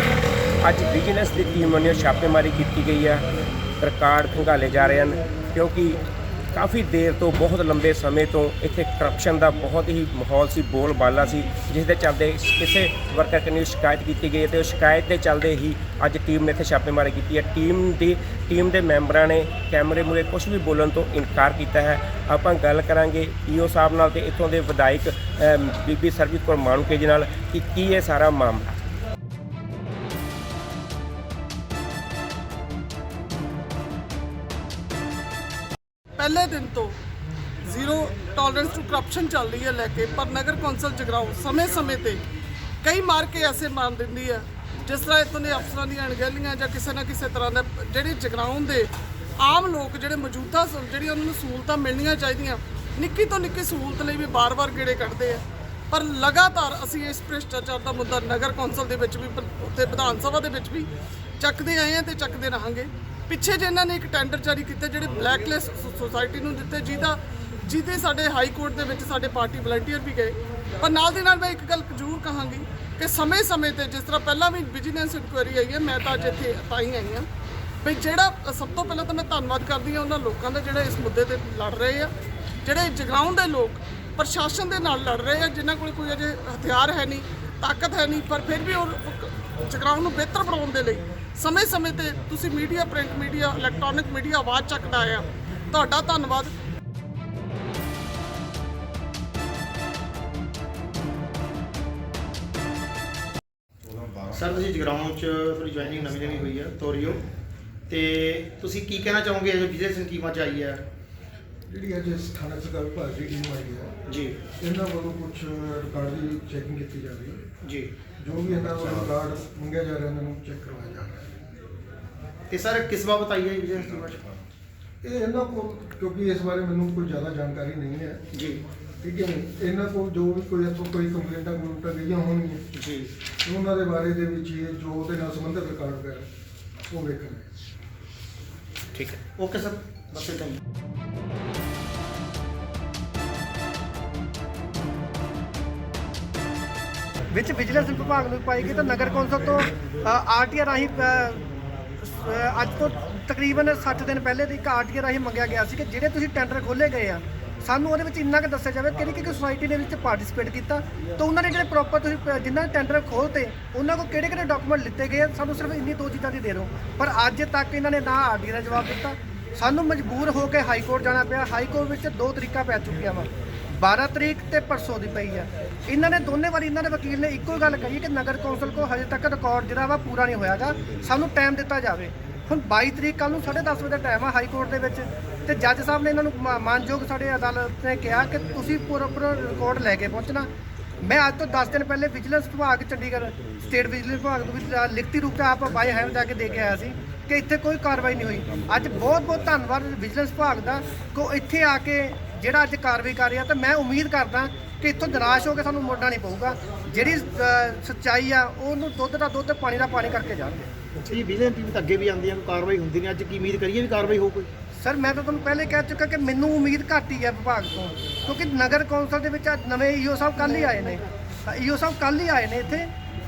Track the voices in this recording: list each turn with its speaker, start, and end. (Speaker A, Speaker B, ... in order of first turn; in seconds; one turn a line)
Speaker A: 0.6-3.2
Speaker A: 3.8-6.0
Speaker A: 6.5-28.7
Speaker B: 36.2-37.0
Speaker B: 37.6-42.2
Speaker B: 42.8-77.3
Speaker B: 77.8-96.5
Speaker C: 104.3-107.2
Speaker C: 107.9-110.9
Speaker D: 111.7-113.9
Speaker C: 114.1-114.4
Speaker D: 114.6-117.5
Speaker C: 117.6-117.9
Speaker D: 118.2-121.3
Speaker C: 122.5-124.4
Speaker D: 125.0-128.3
Speaker C: 128.3-128.6
Speaker D: 129.0-132.7
Speaker C: 132.7-133.1
Speaker D: 133.4-136.3
Speaker D: 136.9-137.5
Speaker C: 138.9-140.6
Speaker E: 147.3-151.4
Speaker E: 152.0-190.5
Speaker E: 191.0-210.7
Speaker C: 211.0-214.5
Speaker E: 214.8-222.9